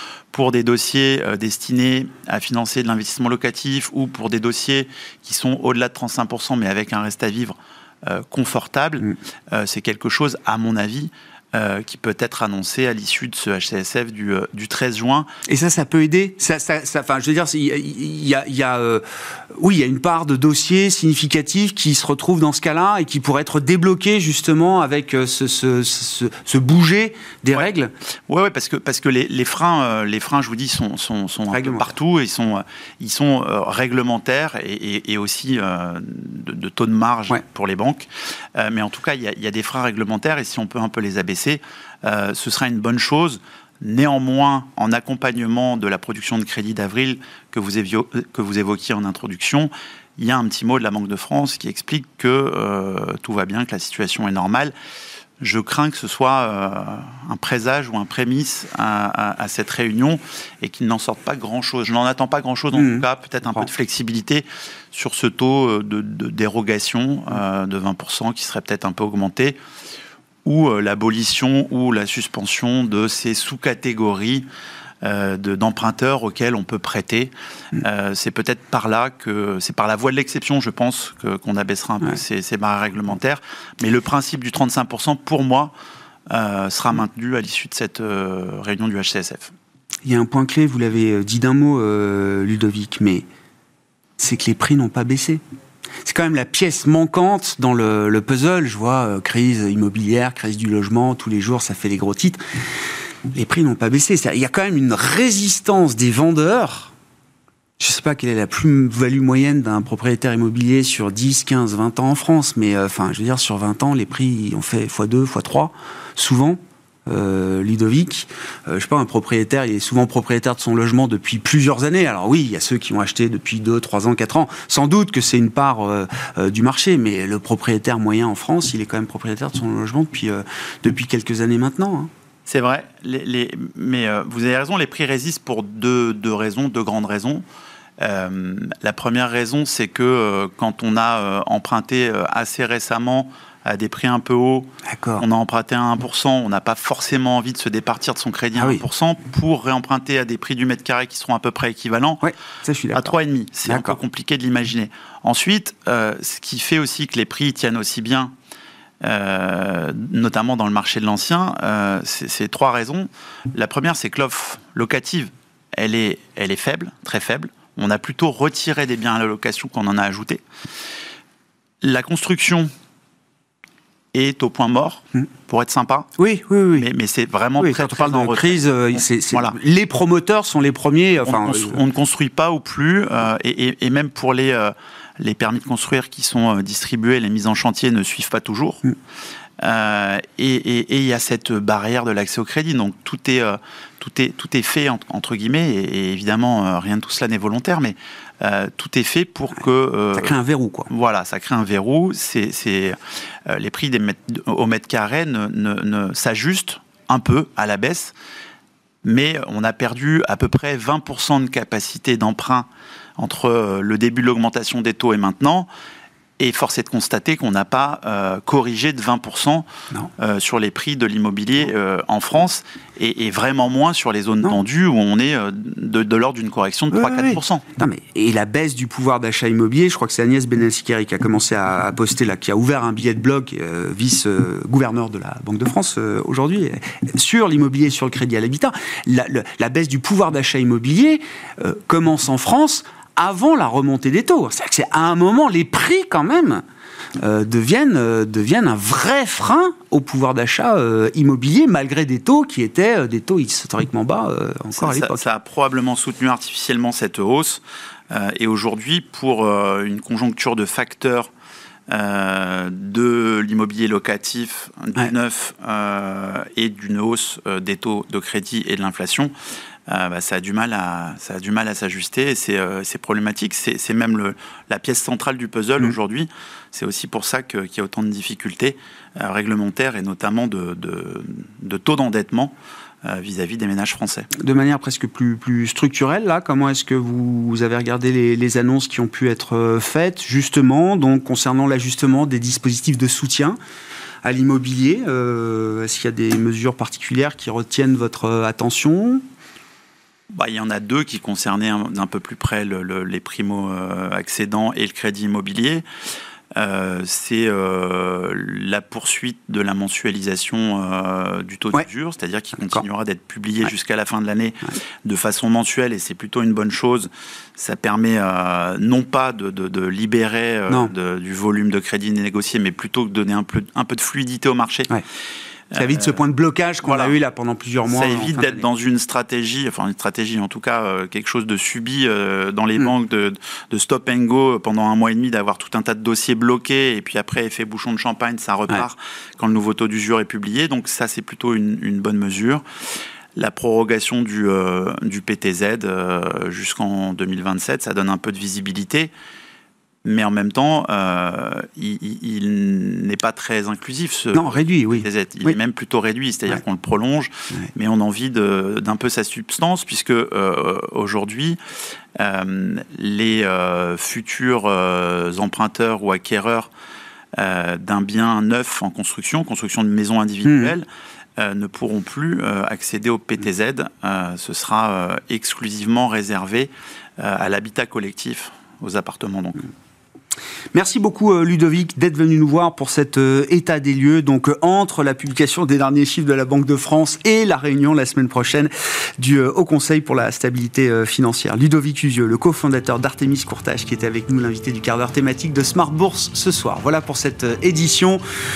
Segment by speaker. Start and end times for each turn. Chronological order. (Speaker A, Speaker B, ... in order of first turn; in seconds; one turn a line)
Speaker A: 0.3-15.3
Speaker B: 15.5-27.9
Speaker A: 28.3-54.7
Speaker B: 31.5-31.9
Speaker A: 55.4-69.6
Speaker B: 62.7-63.7
Speaker A: 70.5-74.5
Speaker A: 75.0-85.7
Speaker A: 86.3-89.5
Speaker B: 90.0-93.2
Speaker B: 94.2-95.4
Speaker B: 96.0-102.4
Speaker B: 103.3-106.9
Speaker B: 107.8-132.1
Speaker A: 132.5-137.4
Speaker A: 138.0-152.3
Speaker B: 144.9-145.2
Speaker B: 148.6-148.8
Speaker B: 152.2-153.1
Speaker A: 152.9-158.3
Speaker B: 153.7-154.0
Speaker A: 159.0-170.4
Speaker A: 171.8-172.7
Speaker A: 174.1-176.1
Speaker B: 176.2-176.9
Speaker A: 176.7-178.6
Speaker B: 177.6-181.8
Speaker A: 179.3-179.6
Speaker A: 181.2-188.8
Speaker A: 189.6-200.4
Speaker B: 200.1-200.9
Speaker A: 200.9-208.1
Speaker A: 209.0-215.7
Speaker A: 216.4-219.7
Speaker A: 220.2-227.6
Speaker B: 226.9-246.6
Speaker B: 247.2-255.2
Speaker A: 254.8-261.3
Speaker A: 261.9-269.3
Speaker A: 269.9-284.3
Speaker B: 284.3-293.6
Speaker B: 294.2-299.2
Speaker A: 300.3-305.8
Speaker A: 306.6-325.0
Speaker B: 312.6-312.8
Speaker A: 325.7-326.2
Speaker B: 325.7-328.6
Speaker A: 326.8-327.2
Speaker A: 327.9-342.6
Speaker A: 343.3-349.1
Speaker A: 350.0-361.6
Speaker B: 354.3-355.6
Speaker A: 362.1-366.7
Speaker A: 367.4-379.7
Speaker B: 370.4-370.7
Speaker B: 380.7-398.2